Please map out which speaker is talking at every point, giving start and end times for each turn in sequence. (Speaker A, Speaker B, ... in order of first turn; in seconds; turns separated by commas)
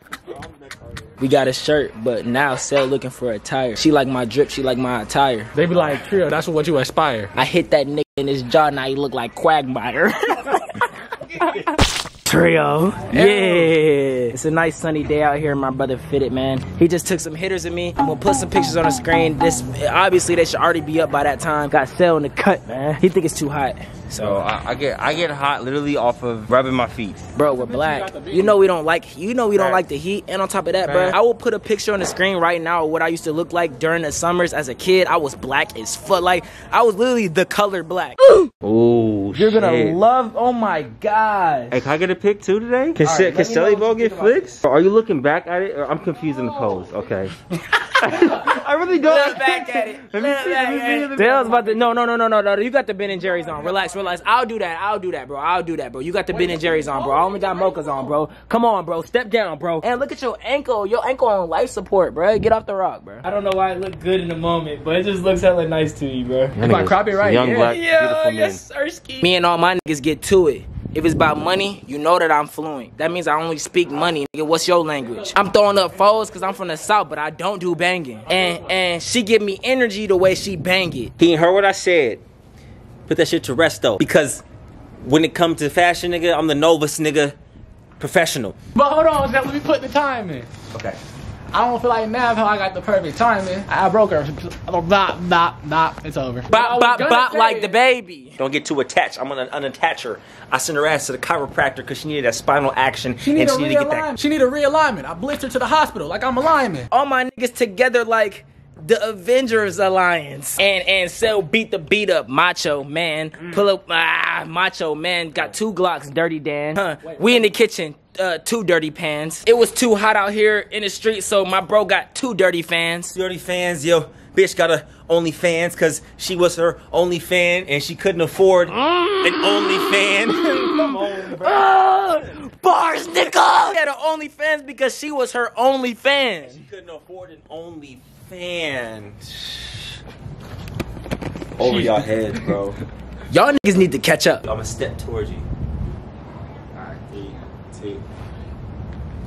Speaker A: 1.2-5.5, Speaker B: 5.5-7.3, Speaker A: 7.4-11.7, Speaker A: 12.2-24.4, Speaker B: 13.1-13.7, Speaker C: 24.2-27.2, Speaker A: 27.4-38.5, Speaker B: 27.5-28.6, Speaker C: 29.5-29.8, Speaker C: 30.8-31.2, Speaker C: 38.6-40.0, Speaker A: 39.4-41.9, Speaker C: 41.7-47.3, Speaker A: 43.0-44.5, Speaker C: 48.0-52.0, Speaker A: 49.0-66.7, Speaker B: 56.7-57.5, Speaker C: 66.6-68.6, Speaker B: 66.6-67.7, Speaker A: 67.5-81.1, Speaker C: 81.2-82.2, Speaker C: 83.1-84.4, Speaker C: 85.0-87.4, Speaker C: 88.0-88.6, Speaker B: 88.8-90.5, Speaker C: 90.7-91.0, Speaker B: 91.5-97.7, Speaker A: 96.5-98.4, Speaker C: 98.4-104.1, Speaker B: 103.2-106.9, Speaker A: 106.9-123.1, Speaker B: 117.0-117.5, Speaker C: 123.1-131.7, Speaker A: 128.8-136.6, Speaker C: 136.4-139.8, Speaker C: 141.6-142.8, Speaker B: 141.6-142.5, Speaker A: 143.3-144.4, Speaker C: 144.4-145.5, Speaker C: 146.8-148.0